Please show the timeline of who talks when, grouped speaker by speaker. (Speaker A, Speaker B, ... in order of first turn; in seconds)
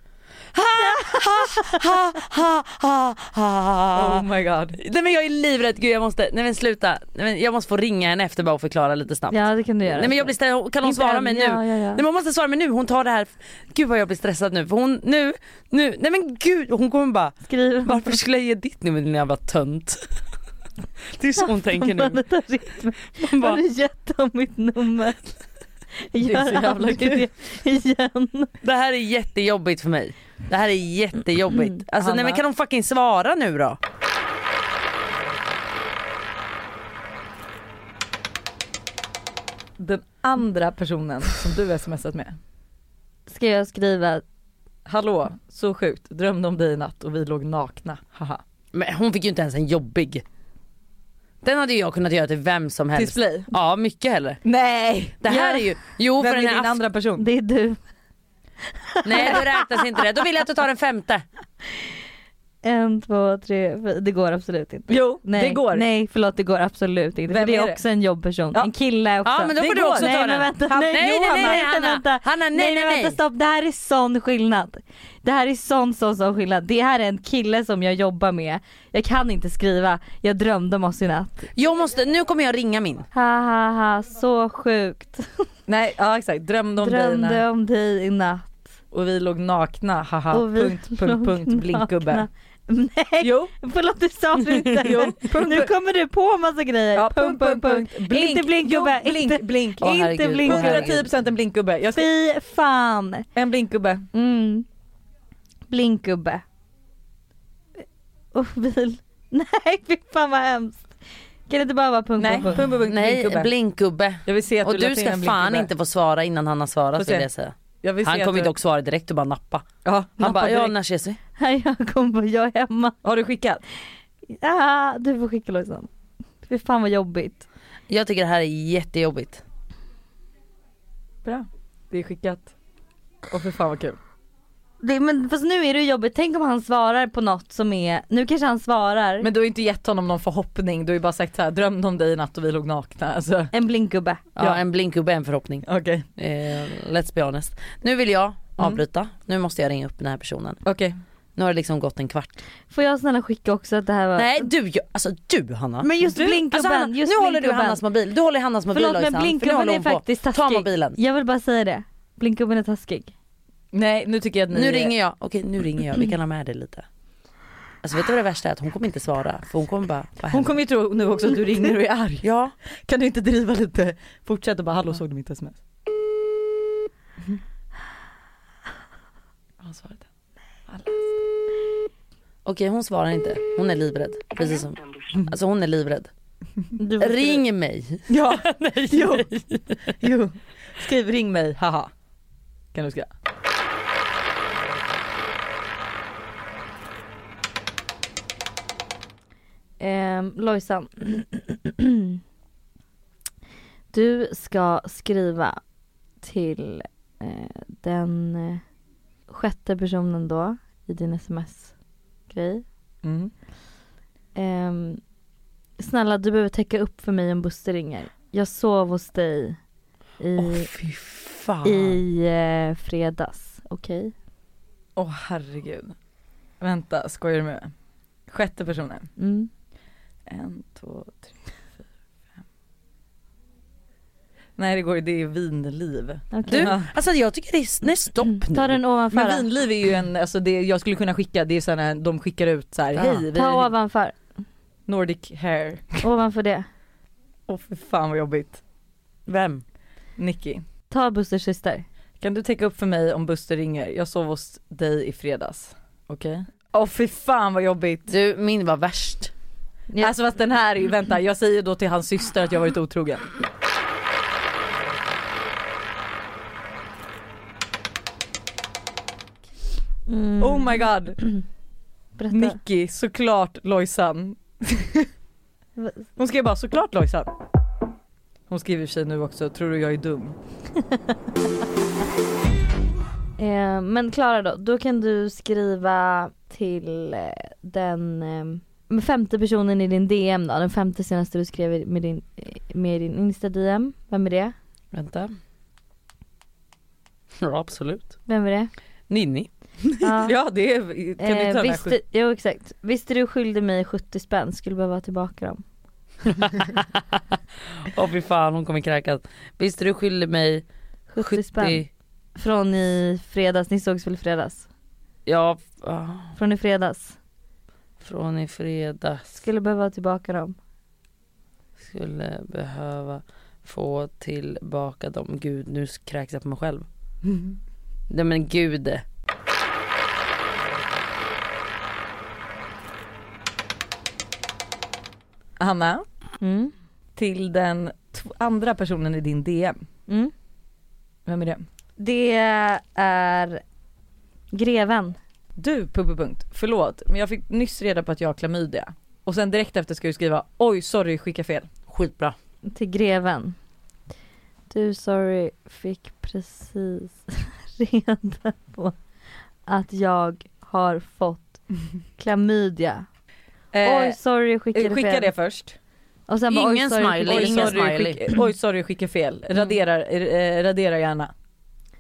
Speaker A: 0.5-4.3, 4.8-20.1, 21.0-22.2, 23.1-23.6, 28.6-33.8, 48.7-50.2, 51.4-54.4, 55.2-56.8, 59.0-61.2, 69.2-73.2, 81.5-83.1, 99.8-101.1, 112.2-119.7, 120.2-121.2, 127.9-129.4, 144.4-145.6, 146.2-150.6, 151.4-152.4, 154.1-161.0, 164.5-166.9, 167.8-170.6, 172.2-172.5, 182.4-186.1, 187.0-189.9, 220.4-222.0, 236.5-238.8, 242.9-243.3, 249.3-249.6, 258.1-259.3, 294.9-295.3, 297.4-298.2, 299.1-299.5, 306.3-307.2, 307.8-310.6, 311.2-311.9, 315.3-316.4, 318.0-319.4, 321.8-326.9, 328.1-329.0, 351.9-352.4, 366.5-368.2
Speaker B: 0.9-1.9, 9.3-10.3, 10.8-12.0, 17.5-18.2, 21.4-25.2, 26.0-28.5, 43.3-44.2, 55.3-55.5, 57.2-57.8, 58.9-59.6, 62.6-81.5, 83.1-85.5, 86.8-88.7, 90.3-100.9, 101.9-103.3, 104.1-104.7, 105.7-106.4, 108.3-111.0, 111.5-112.6, 121.4-123.0, 124.3-125.9, 126.4-127.5, 134.8-139.3, 143.5-144.3, 152.7-154.5, 155.8-157.8, 158.7-163.1, 186.8-187.4, 199.8-202.2, 203.9-205.6, 206.2-208.6, 209.3-211.7, 212.3-212.6, 214.3-215.0, 215.8-219.6, 220.2-220.7, 221.6-224.1, 229.2-229.5, 236.3-236.7, 238.3-239.4, 243.3-244.2, 246.0-246.7, 250.9-251.9, 270.1-271.4, 272.2-272.6, 275.8-276.1, 283.4-294.6, 298.3-298.7, 300.0-300.3, 301.2-305.6, 311.1-314.7, 316.4-317.2, 319.4-320.6, 336.4-336.7, 342.0-343.6, 344.5-345.2, 352.6-353.6, 354.7-358.9, 359.6-361.6, 362.2-363.1, 363.8-365.3, 366.3-367.8
Speaker C: 3.9-4.8, 26.2-27.3, 32.0-32.4, 39.8-42.4, 44.9-48.4, 52.9-53.5, 54.4-55.6, 56.2-57.2, 64.9-65.9, 67.3-67.8, 69.6-70.2, 71.0-71.6, 85.7-87.4, 88.9-92.3, 93.2-93.5, 94.8-95.7, 96.9-102.1, 103.3-104.1, 112.2-113.5, 114.3-115.7, 117.0-117.3, 117.8-118.5, 119.8-120.7, 123.0-123.6, 131.2-132.5, 133.3-134.0, 139.2-143.5, 145.6-146.1, 150.6-150.9, 156.1-156.4, 163.7-164.9, 170.3-172.3, 172.9-175.6, 179.6-180.0, 180.7-181.1, 188.1-191.9, 192.7-193.1, 213.0-213.3, 224.9-225.9, 226.6-227.7, 228.3-229.1, 230.3-231.3, 234.6-236.9, 239.1-243.7, 244.9-246.0, 247.5-248.6, 250.2-250.6, 252.2-258.1, 260.0-263.3, 270.4-271.2, 272.3-275.1, 276.2-277.3, 278.5-280.4, 300.2-302.0, 335.6-336.1, 337.1-339.9, 341.3-341.6, 345.6-351.7, 363.7-364.2, 364.7-365.8, 367.3-371.3